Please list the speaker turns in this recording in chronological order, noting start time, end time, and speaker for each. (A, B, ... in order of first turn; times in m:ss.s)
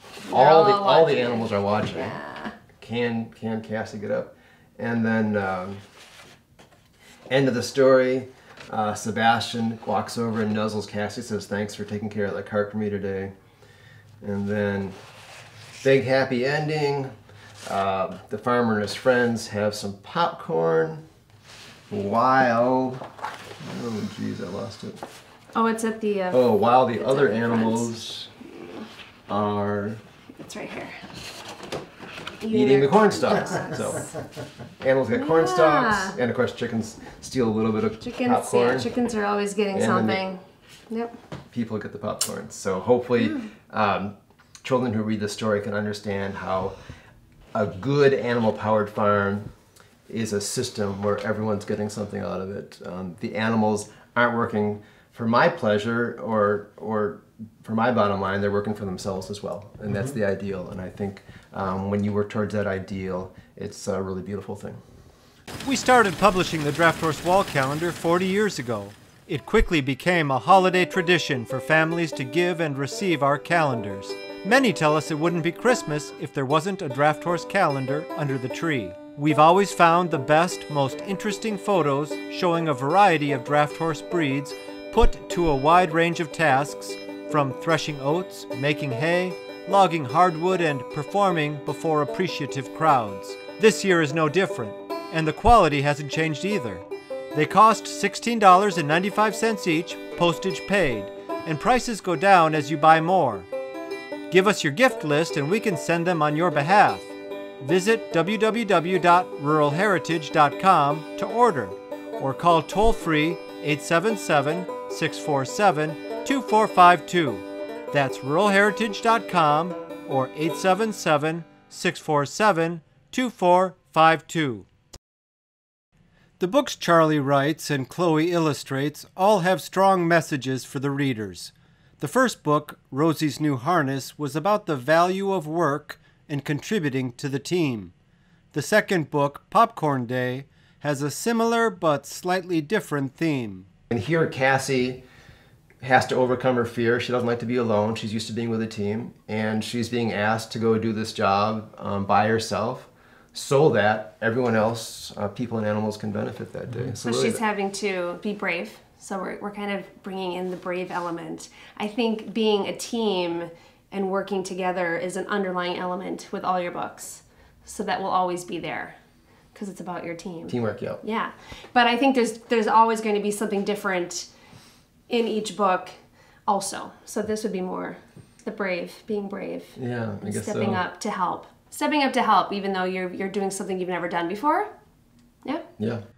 0:00.2-0:02.6 A
0:00.3-0:02.2 B
0:02.8-0:05.8 B
0:07.3-0:13.3 B
0:14.2-0:15.0 B
0:15.8-0:17.1 B
0:17.6-0:21.0 B
0:21.9-0:23.0 B
0:23.6-0:25.0 B
0:25.5-0:27.9 A
0:26.3-0:28.3 B
0:28.6-0:28.8 A
0:29.3-0:30.0 B
0:30.4-0:31.0 A
0:32.4-0:34.1 A
0:32.5-0:34.1 B
0:34.8-0:38.9 B
0:35.1-0:36.2 A
0:38.0-0:41.1 A
0:39.7-0:40.2 B
0:41.5-0:46.8 B
0:43.2-0:43.4 A
0:47.5-0:49.5 B
0:50.1-1:04.8 B
1:05.6-1:43.5 C
1:44.3-2:04.7 C
2:06.4-2:17.9 C
2:18.5-2:23.7 C
2:23.9-2:25.0 B
2:25.8-2:37.4 B
2:37.0-2:49.0 A
2:49.5-2:54.3 A
2:50.5-2:51.0 B
2:55.1-2:55.9 A
2:56.5-3:04.7 A
2:59.8-3:00.8 B
3:05.8-3:06.0 B